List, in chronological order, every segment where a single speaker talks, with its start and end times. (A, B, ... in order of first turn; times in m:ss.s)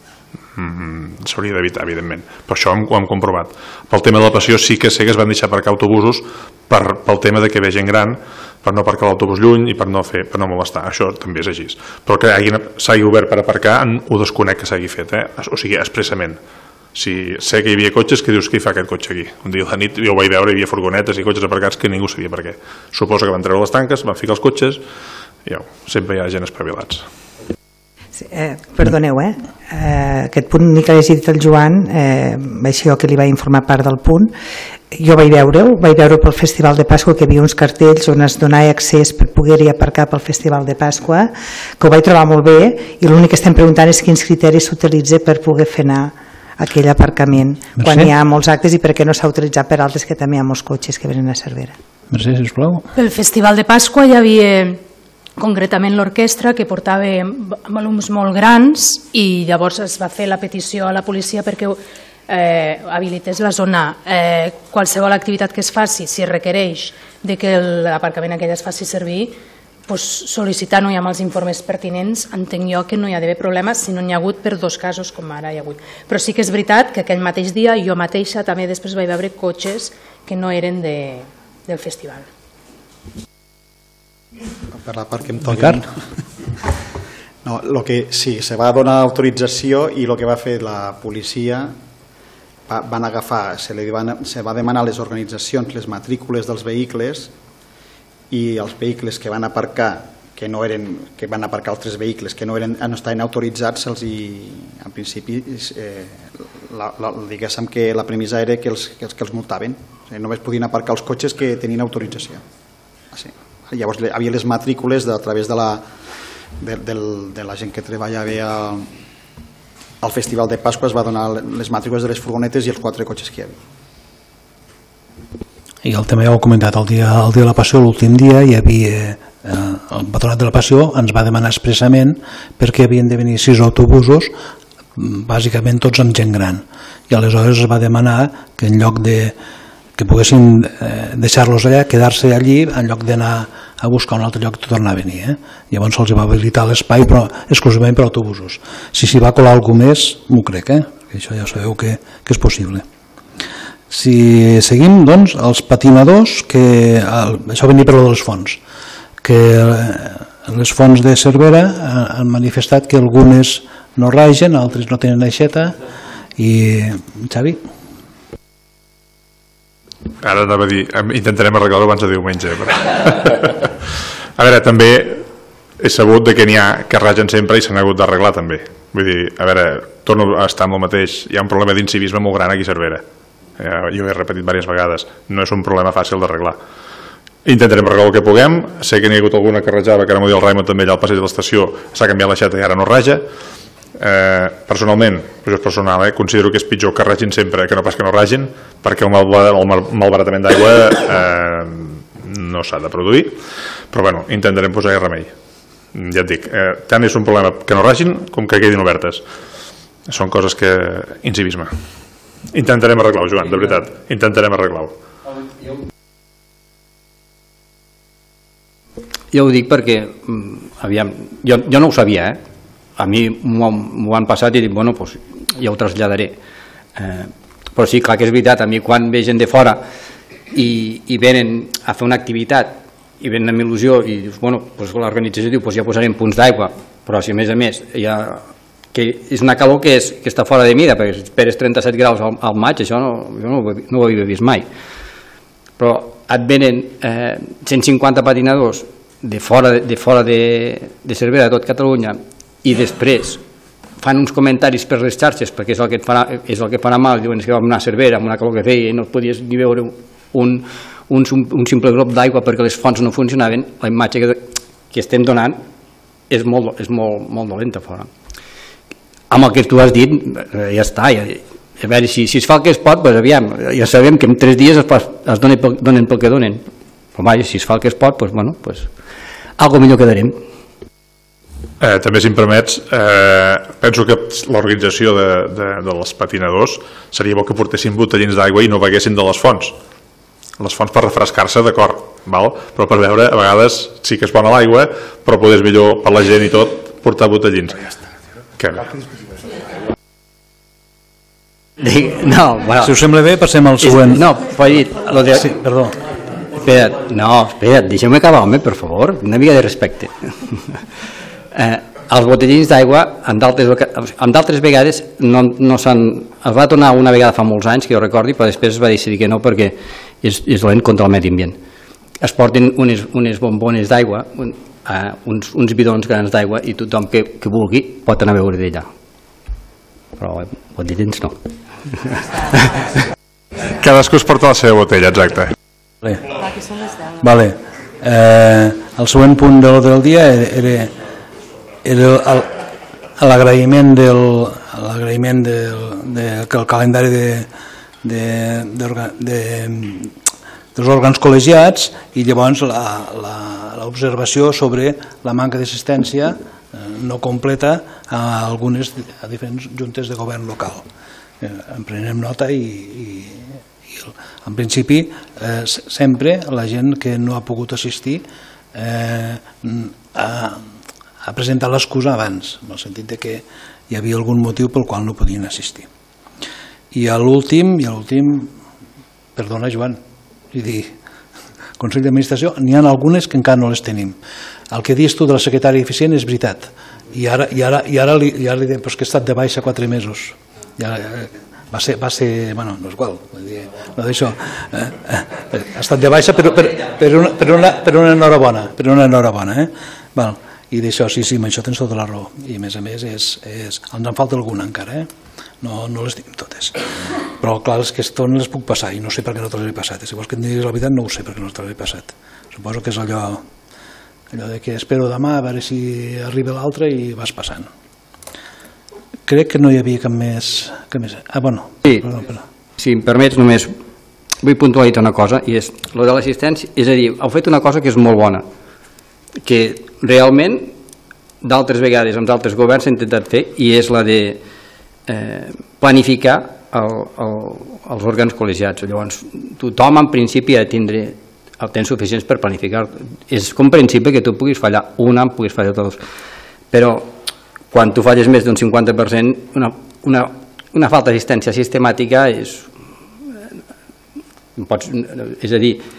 0:00.6-0:16.4 A
0:16.9-0:24.8 A
0:25.4-0:27.1 A
0:28.2-0:34.3 B
0:34.9-0:51.8 B
0:47.8-0:48.1 C
0:52.1-0:52.9 C
0:53.0-0:54.8 D
0:55.4-1:09.4 D
1:09.9-1:22.3 D
1:24.7-1:25.9 E
1:25.5-1:25.8 C
1:27.4-1:31.8 E
1:32.7-1:37.3 E
1:38.3-1:52.4 E
1:53.1-1:55.8 E
1:56.6-1:58.9 E
2:00.0-2:03.6 E
2:05.8-2:14.3 C
2:15.0-2:19.4 C
2:20.0-2:32.8 C
2:33.9-2:38.6 C
2:39.2-2:45.8 C
2:46.4-2:47.6 C
2:50.2-2:53.7 A
2:54.4-2:55.3 A
2:55.8-3:03.0 A
3:03.6-3:06.6 A
3:07.4-3:13.3 A
3:14.0-3:25.3 A
3:25.9-3:29.3 A
3:30.1-3:31.8 A
3:32.5-3:35.0 A
3:39.3-3:42.4 F
3:43.0-3:46.4 F
3:47.0-3:49.8 F
3:50.5-4:04.7 F
4:05.8-4:13.4 F
4:14.0-4:25.6 F
4:26.3-4:28.1 F
4:29.3-4:38.9 F
4:39.6-4:40.4 F
4:41.8-4:49.8 A
4:50.6-4:57.9 A
4:58.6-4:58.9 A
5:01.8-5:03.0 F
5:02.8-5:04.2 C
5:03.8-5:05.6 F
5:05.3-5:06.0 C
5:06.6-5:10.8 F
5:11.6-5:21.6 F
5:22.2-5:28.9 F
5:30.2-5:31.4 F
5:31.9-5:32.8 F
5:33.7-5:35.5 A
5:36.0-5:36.3 C
5:37.1-5:41.0 C
5:41.8-5:42.6 C
5:43.2-5:47.5 C
5:48.0-5:50.1 C
5:50.8-6:00.9 C
6:01.4-6:10.7 C
6:11.2-6:15.9 C
6:16.9-6:18.5 C
6:19.4-6:20.0 C
6:20.5-6:20.9 C
6:21.8-6:24.2 C
6:24.7-6:45.1 C
6:45.6-6:53.4 C
6:54.3-6:57.7 C
6:59.3-7:02.4 C
7:02.8-7:03.7 F
7:04.4-7:08.4 F
7:09.4-7:10.7 F
7:11.4-7:14.4 F
7:15.1-7:26.0 F
7:26.7-7:27.2 F
7:27.7-7:32.7 F
7:34.6-7:35.8 F